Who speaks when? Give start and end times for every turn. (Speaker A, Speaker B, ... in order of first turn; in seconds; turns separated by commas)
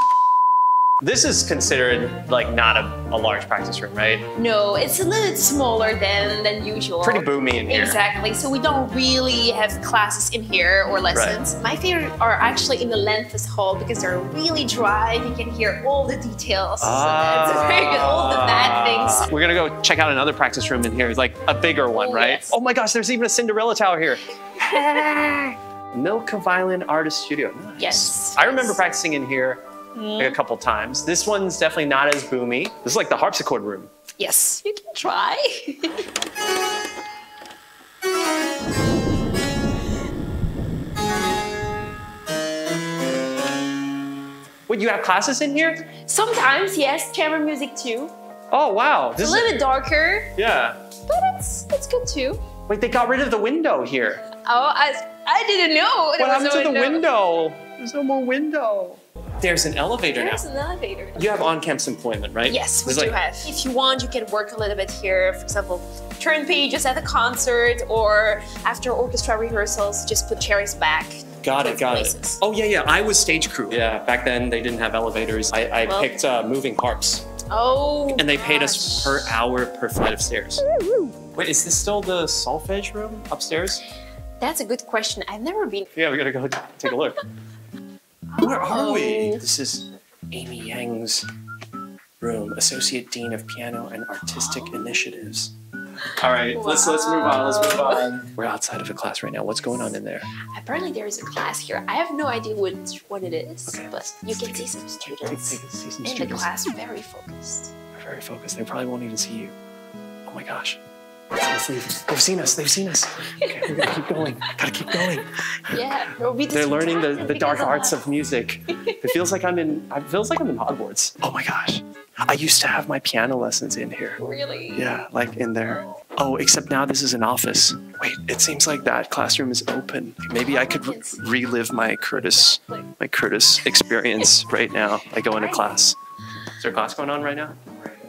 Speaker A: 1.0-4.3, Speaker B: 4.3-19.3, Speaker A: 7.0-8.0, Speaker A: 11.1-11.4, Speaker A: 16.8-29.6, Speaker B: 21.9-22.5, Speaker B: 27.8-28.8, Speaker B: 29.9-30.4, Speaker A: 30.2-33.9, Speaker B: 34.2-36.0, Speaker A: 44.7-45.9, Speaker B: 46.0-48.1, Speaker A: 48.5-49.6, Speaker B: 49.2-50.3, Speaker A: 50.4-50.8, Speaker B: 51.1-52.4, Speaker A: 52.7-54.2, Speaker B: 54.4-57.1, Speaker A: 56.2-60.4, Speaker B: 60.1-61.3, Speaker A: 61.1-63.5, Speaker B: 62.5-72.4, Speaker A: 71.4-77.2, Speaker B: 75.8-76.2, Speaker B: 77.5-79.3, Speaker A: 78.2-80.6, Speaker A: 81.3-83.8, Speaker B: 84.4-85.9, Speaker A: 86.0-87.2, Speaker B: 88.3-89.4, Speaker A: 88.4-91.3, Speaker A: 92.2-95.5, Speaker A: 96.2-100.3, Speaker B: 96.5-98.1, Speaker B: 100.5-107.7, Speaker A: 103.7-106.5, Speaker A: 108.0-109.5, Speaker A: 110.3-110.8, Speaker A: 111.4-115.3, Speaker B: 115.7-118.1, Speaker A: 116.5-124.2, Speaker B: 124.2-125.0, Speaker A: 124.8-136.0, Speaker B: 125.7-126.0, Speaker B: 130.4-131.2, Speaker B: 132.2-132.9, Speaker B: 135.3-135.7, Speaker A: 136.6-137.6